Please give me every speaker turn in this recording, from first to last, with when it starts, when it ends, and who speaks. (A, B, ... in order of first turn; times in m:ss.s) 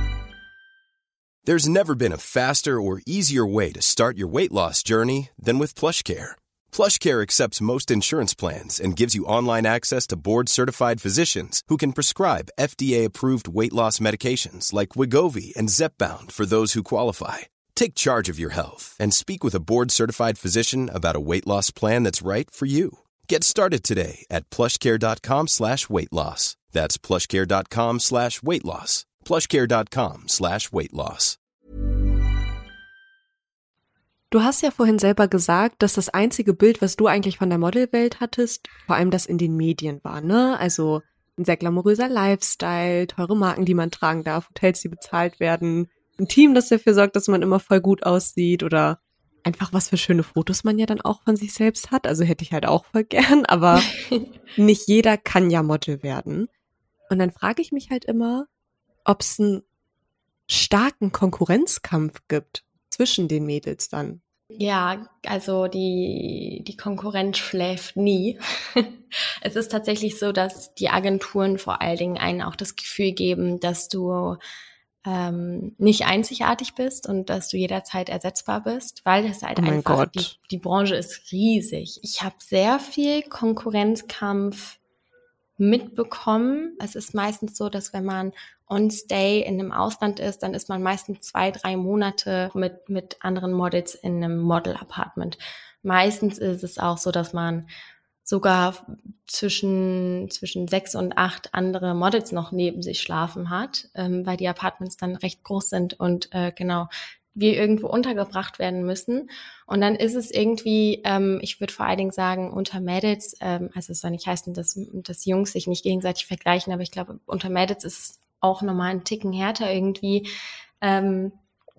0:01.4-0:31.4 A
0:34.3-0:53.9 B
0:53.8-0:54.2 C
0:54.5-0:56.5 B
0:57.1-0:58.5 B
0:59.0-0:59.6 B
1:00.5-1:04.2 B
1:04.6-1:14.4 C
1:15.0-1:24.8 C
1:19.6-1:20.3 B
1:25.6-1:37.7 C
1:38.2-2:00.3 C
2:00.8-2:01.4 C